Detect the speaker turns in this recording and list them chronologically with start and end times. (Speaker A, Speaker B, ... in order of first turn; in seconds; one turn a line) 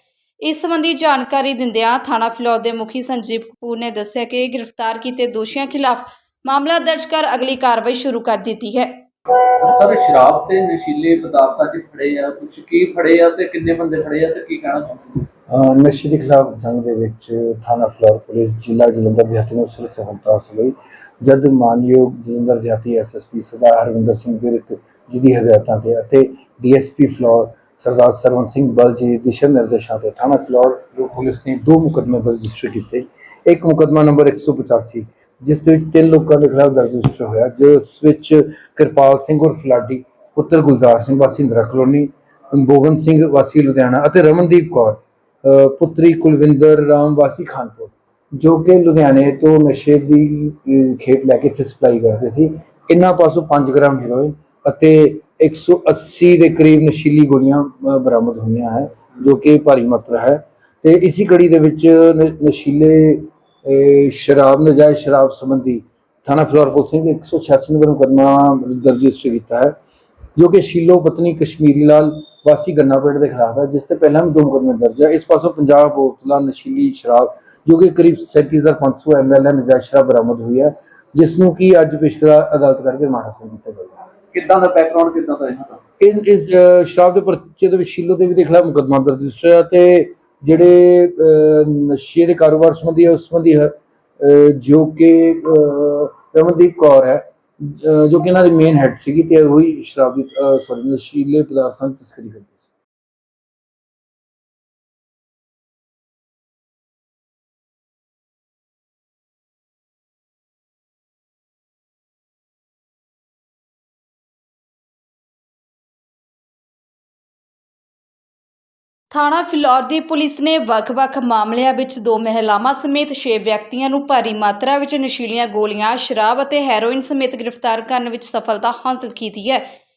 Speaker A: 0.4-8.9
Speaker B: 9.6-15.0
Speaker C: 15.5-69.8
Speaker C: 70.4-84.0
Speaker B: 84.3-85.8
Speaker C: 86.0-102.7
Speaker A: 119.1-129.7